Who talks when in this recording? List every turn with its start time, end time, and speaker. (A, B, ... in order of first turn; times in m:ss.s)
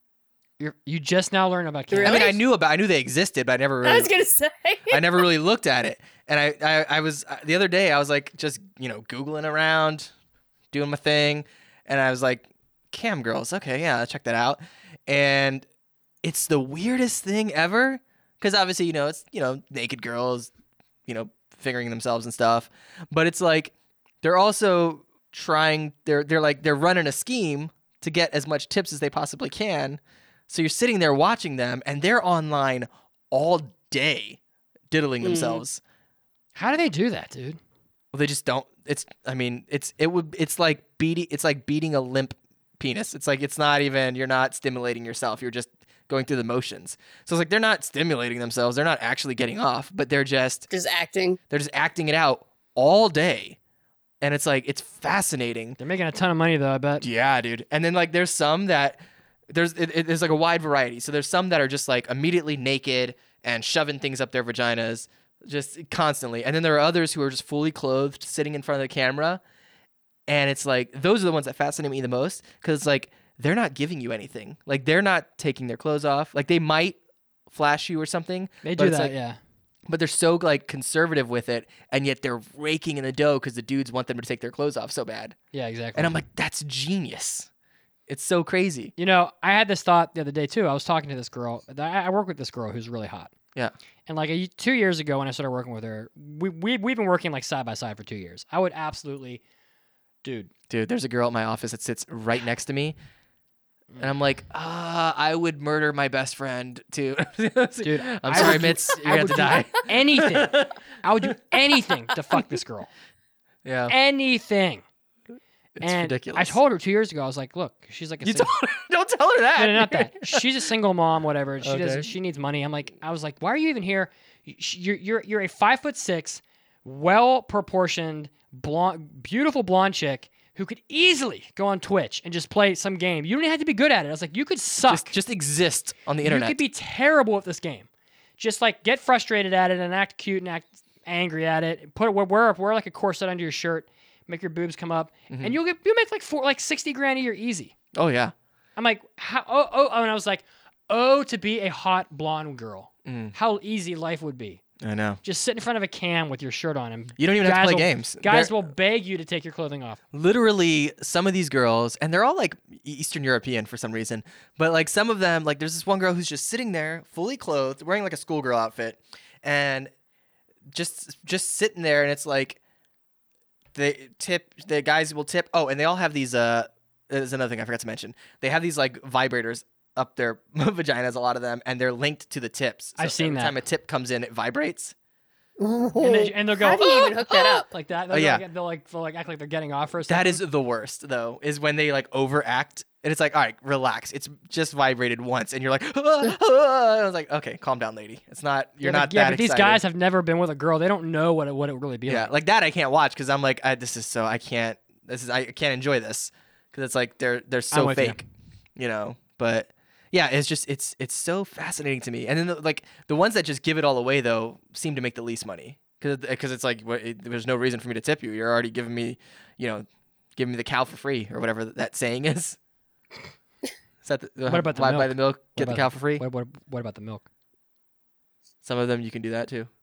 0:00.6-0:02.3 A
0:01.9-0:02.4 B
0:02.0-0:04.1 C
0:03.8-0:05.2 B
0:04.9-0:10.1 C
0:10.7-0:15.6 C
0:16.2-0:20.5 C
0:21.1-0:34.4 C
0:34.9-0:35.8 C
0:35.2-0:35.6 B
0:36.6-0:37.6 A
0:38.1-0:50.7 C
0:50.7-0:51.4 B
0:51.5-0:53.6 C
0:54.2-0:55.8 C
0:55.8-0:57.1 A
0:57.0-1:09.4 C
1:10.3-1:17.0 C
1:17.5-1:19.1 C
1:18.6-1:19.4 A
1:19.9-1:25.4 C
1:25.5-1:26.2 A
1:26.0-1:27.5 C
1:28.1-1:28.9 C
1:29.0-1:33.3 A
1:34.1-1:39.4 A
1:40.2-1:40.5 A
1:40.7-1:43.0 C
1:44.0-1:50.7 C
1:47.8-1:52.9 A
1:53.6-1:54.0 C
1:53.9-1:54.8 A
1:55.8-1:56.6 C
1:55.8-1:58.5 A
1:58.2-2:00.4 C
1:59.6-2:15.1 A
2:01.6-2:02.1 C
2:14.9-2:16.6 C
2:16.2-2:27.7 A
2:25.3-2:25.6 C
2:27.9-2:28.3 C
2:28.8-2:34.6 A
2:33.0-2:33.4 C
2:34.8-2:35.2 C
2:35.2-2:40.0 A
2:37.2-2:38.7 C
2:40.1-2:49.9 C
2:50.7-2:52.6 C
2:53.7-3:04.9 C
3:03.0-3:03.6 A
3:05.6-3:07.7 B
3:06.0-3:10.4 A
3:08.1-3:08.4 C
3:10.1-3:19.8 C
3:18.8-3:22.3 A
3:22.1-3:42.6 C
3:27.7-3:28.2 A
3:44.0-3:46.2 C
3:44.5-3:47.2 A
3:48.6-3:49.7 C